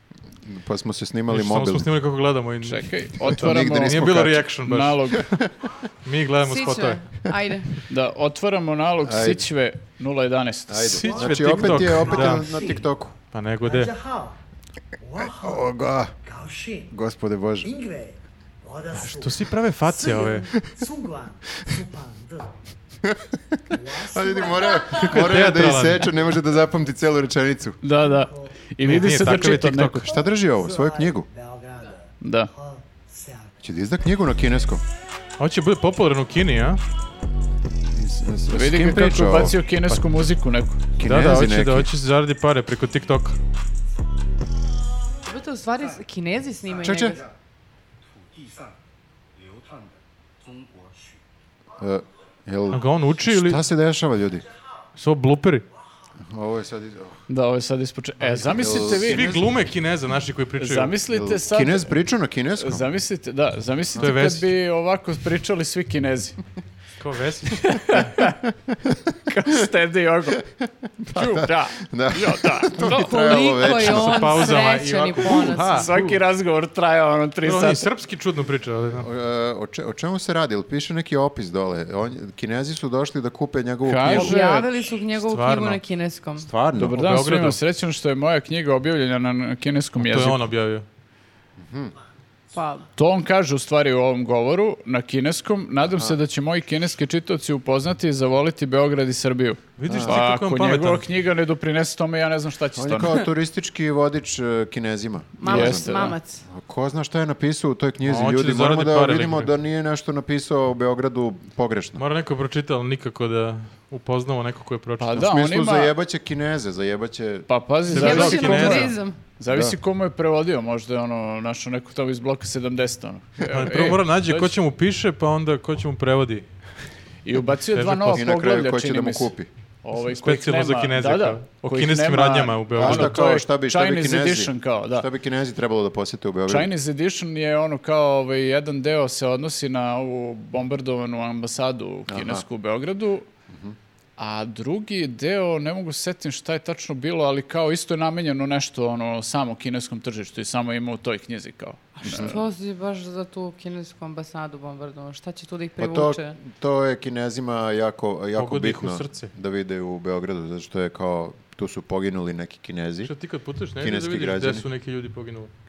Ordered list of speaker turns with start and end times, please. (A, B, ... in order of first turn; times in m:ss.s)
0:00.4-0:01.9 A
0:01.3-0:05.3 B
0:02.6-0:05.3 C
0:03.2-0:04.5 A
0:05.2-0:05.5 A
0:06.0-0:07.0 B
0:06.4-0:07.8 D
0:07.9-0:11.0 C
0:09.0-0:09.4 A
0:10.7-0:13.2 A
0:10.8-0:12.6 B
0:11.1-0:12.9 E
0:13.3-0:13.9 B
0:13.6-0:14.4 E
0:15.0-0:15.7 E
0:15.4-0:16.1 A
0:16.2-0:16.9 E
0:16.9-0:17.7 A
0:17.6-0:22.5 E
0:18.9-0:20.5 B
0:23.0-0:27.8 A
0:23.7-0:25.2 E
0:25.0-0:26.1 B
0:27.8-0:30.0 C
0:28.1-0:28.6 E
0:28.8-0:30.1 B
0:30.0-0:31.3 A
0:30.1-0:33.5 E
0:32.2-0:32.5 C
0:33.6-0:34.8 A
0:35.4-0:36.8 B
0:37.9-0:39.6 A
0:38.5-0:40.9 C
0:41.0-0:41.9 A
0:41.0-0:43.4 B
0:45.2-0:47.2 D
0:46.8-0:47.2 A
0:51.8-0:54.4 A
0:52.7-0:53.6 B
0:54.9-0:55.6 B
0:56.2-0:57.2 A
0:57.3-0:59.3 C
0:58.4-0:59.5 A
0:58.6-1:00.9 B
1:00.6-1:02.0 C
1:01.1-1:02.8 A
1:02.6-1:06.4 C
1:04.0-1:04.5 B
1:07.0-1:08.2 B
1:07.6-1:08.4 C
1:08.8-1:09.2 A
1:09.3-1:10.4 C
1:11.0-1:14.5 A
1:11.1-1:13.1 C
1:12.8-1:15.9 D
1:13.8-1:16.2 B
1:15.6-1:17.9 C
1:17.4-1:19.1 B
1:18.9-1:24.4 A
1:23.8-1:24.8 C
1:24.1-1:26.5 D
1:25.2-1:25.8 B
1:26.4-1:27.0 A
1:26.8-1:30.4 C
1:27.0-1:27.6 B
1:30.0-1:30.8 B
1:31.6-1:31.9 A
1:32.5-1:32.8 D
1:33.0-1:43.2 C
1:35.9-1:36.2 A
1:39.8-1:41.1 B
1:39.9-1:40.2 A
1:42.8-1:45.9 A
1:45.4-1:46.4 D
1:45.4-1:46.2 C
1:46.5-1:52.0 A
1:48.0-1:49.5 B
1:52.0-1:55.2 B
1:55.0-1:55.9 C
1:55.2-1:57.5 A
1:57.5-2:04.6 C
1:57.9-1:58.9 B
1:57.9-1:59.2 D
1:59.5-1:59.8 A
2:03.5-2:06.6 B
2:07.2-2:09.3 C
2:07.7-2:08.3 B
2:08.1-2:09.5 A
2:09.8-2:15.1 C
2:10.0-2:13.2 B
2:12.8-2:16.7 A
2:16.5-2:23.3 C
2:22.1-2:22.4 A
2:23.5-2:23.8 A
2:24.2-2:32.4 C
2:32.0-2:36.4 D
2:35.8-2:43.1 A
2:38.4-2:39.3 B
2:43.0-2:45.5 B
2:43.8-2:44.7 A